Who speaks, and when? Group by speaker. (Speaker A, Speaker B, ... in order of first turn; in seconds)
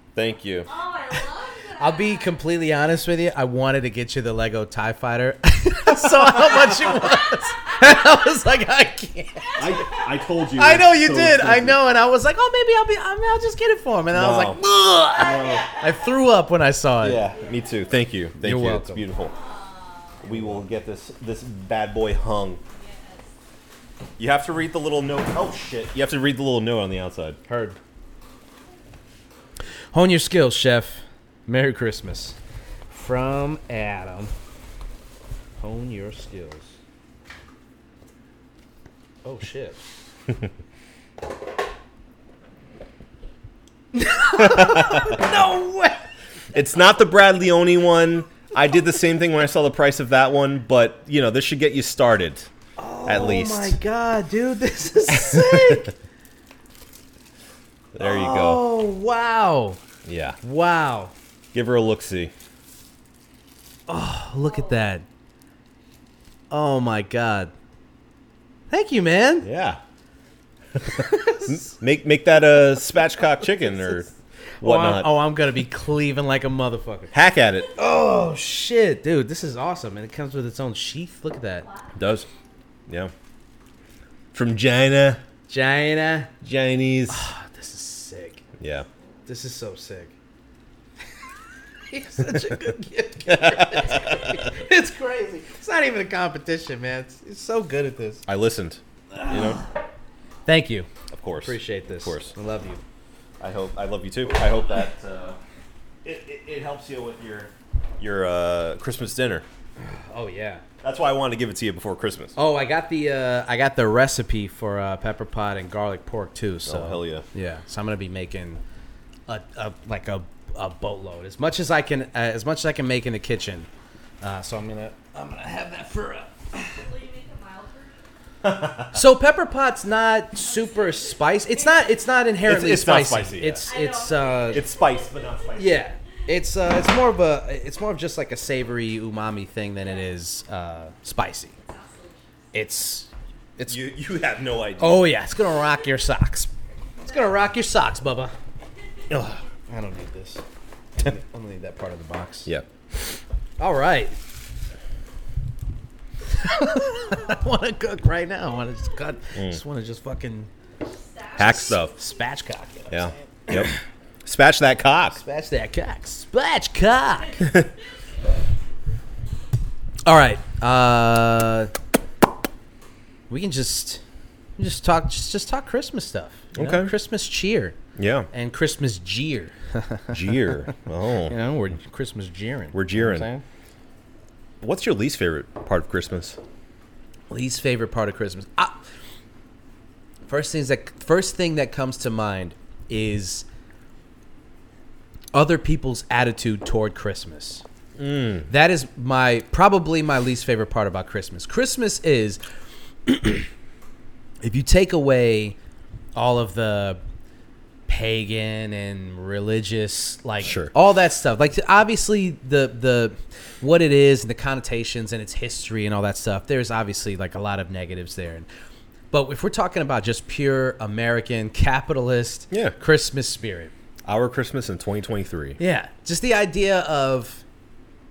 Speaker A: 0.1-0.7, 6.0-7.0, 9.6-11.8, 14.1-14.6, 15.1-15.7, 17.0-19.3, 20.2-22.6, 24.2-27.4, 44.4-45.2, 46.5-52.5, 53.1-53.8, 55.1-55.9, 57.9-58.6, 60.1-60.4, 61.5-62.3, 69.4-69.8, 70.8-75.1, 77.1-77.7, 82.0-82.3, 84.3-85.2, 86.4-87.3, 88.6-88.9, 93.3-94.4, 98.3-99.6, 101.1-102.3, 103.4-105.4, 106.0-109.5, 110.8-112.3, 116.7-117.3, 128.4-128.9, 132.4-133.7, 134.5-135.8, 143.7-145.1, 149.1-149.4, 159.3-159.6, 161.4-161.9, 162.9-163.7, 164.2-165.2, 167.4-167.7, 176.5-176.9, 178.0-178.3, 180.1-181.4, 182.7-183.3, 184.6-186.4, 198.0-198.5, 210.4-210.7, 222.5-222.8, 224.1-225.6
Speaker B: 0.7-2.3, 9.5-10.1, 15.2-16.2, 17.2-18.0, 19.2-20.3, 22.7-23.3, 81.6-82.3, 126.7-128.1, 130.4-131.8, 133.7-135.8, 139.8-140.1, 141.6-142.3, 160.8-162.1, 167.2-167.8
Speaker C: 1.8-9.9, 10.6-17.2, 18.4-19.1, 20.3-20.6, 27.5-27.8, 29.9-32.4, 32.9-34.3, 35.6-36.8, 39.2-39.8, 43.9-46.1, 52.8-55.9, 58.0-59.8, 60.4-61.1, 63.9-65.0, 66.5-67.5, 68.7-69.5, 70.8-71.7, 73.4-74.1, 74.6-77.1, 77.8-81.7, 85.5-86.3, 87.1-88.4, 89.3-90.1, 91.9-98.2, 99.2-99.6, 100.5-100.9, 101.4-102.8, 109.8-110.6, 112.4-118.6, 119.3-123.7, 124.2-126.8, 128.9-134.7, 135.6-141.6, 142.5-143.8, 144.8-146.5, 147.0-148.3, 149.7-150.4, 151.0-152.5, 153.6-154.2, 156.3-160.5, 161.9-163.8, 165.2-167.5, 170.1-171.7, 173.3-174.0, 174.6-177.8, 178.3-180.5, 181.3-183.4, 187.3-188.8, 190.3-193.5, 195.3-197.6, 198.5-202.4, 203.1-203.5, 204.4-205.6, 206.2-207.0, 207.9-218.5, 219.1-223.7, 225.6-227.4